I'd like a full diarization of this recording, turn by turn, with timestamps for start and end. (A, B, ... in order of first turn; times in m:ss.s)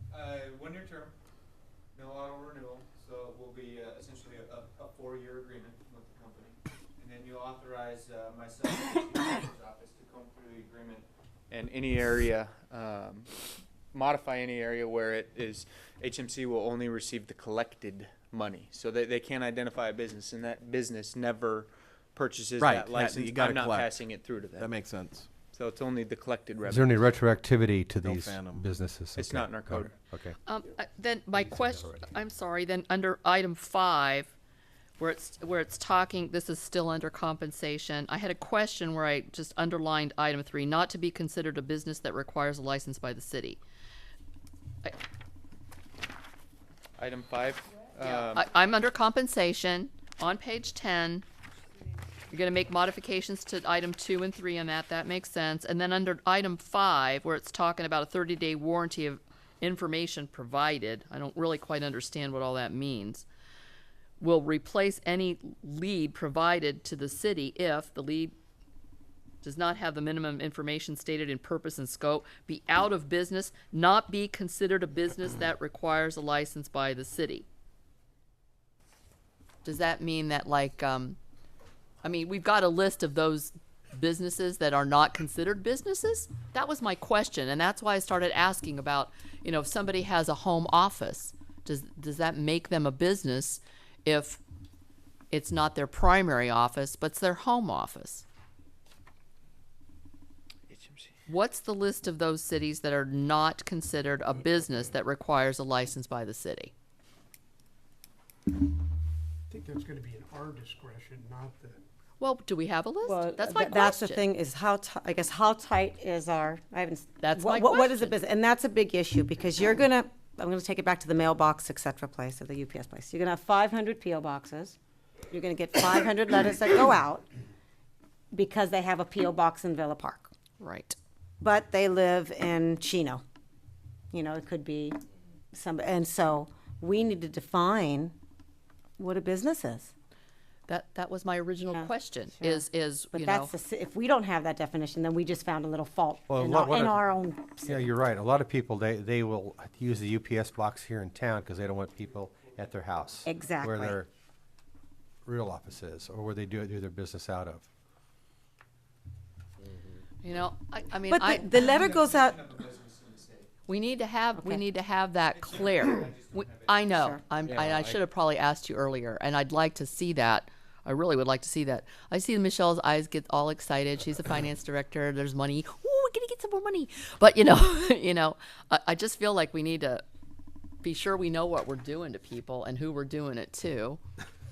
0:00.1-0:01.1 A
0:01.9-0:13.3 A
0:13.9-0:24.7 A
0:22.6-0:24.0 B
0:24.6-0:25.3 B
0:25.5-0:27.1 A
0:26.7-0:30.4 C
0:28.0-0:28.7 B
0:29.2-0:30.0 A
0:30.4-0:34.3 D
0:31.4-0:32.0 C
0:35.0-0:43.6 D
0:47.0-0:48.4 A
0:48.0-0:51.2 D
0:52.3-1:03.2 D
1:04.2-1:08.4 D
1:09.4-1:17.4 D
1:19.6-1:21.2 D
1:22.0-1:34.4 D
1:35.3-1:38.2 D
1:40.7-1:41.1 A
1:41.3-1:46.7 D
1:49.5-1:51.8 E
1:52.2-1:54.2 D
1:53.0-2:04.8 F
1:57.2-1:58.1 D
2:05.3-2:07.3 F
2:08.3-2:10.3 F
2:10.6-2:11.0 D
2:11.4-2:13.2 F
2:14.1-2:15.0 F
2:15.5-2:18.1 F
2:19.0-2:19.9 F
2:20.7-2:23.5 D
2:21.7-2:27.9 F
2:26.3-2:27.0 C
2:27.6-2:34.1 C
2:33.2-2:34.0 F
2:35.2-2:37.7 C
2:40.2-2:41.7 D
2:41.1-2:42.6 F
2:41.8-2:43.5 A
2:43.7-3:00.0 D
2:45.6-2:46.8 A
2:46.9-2:47.2 F
2:47.4-2:48.0 B
3:00.8-3:04.0 D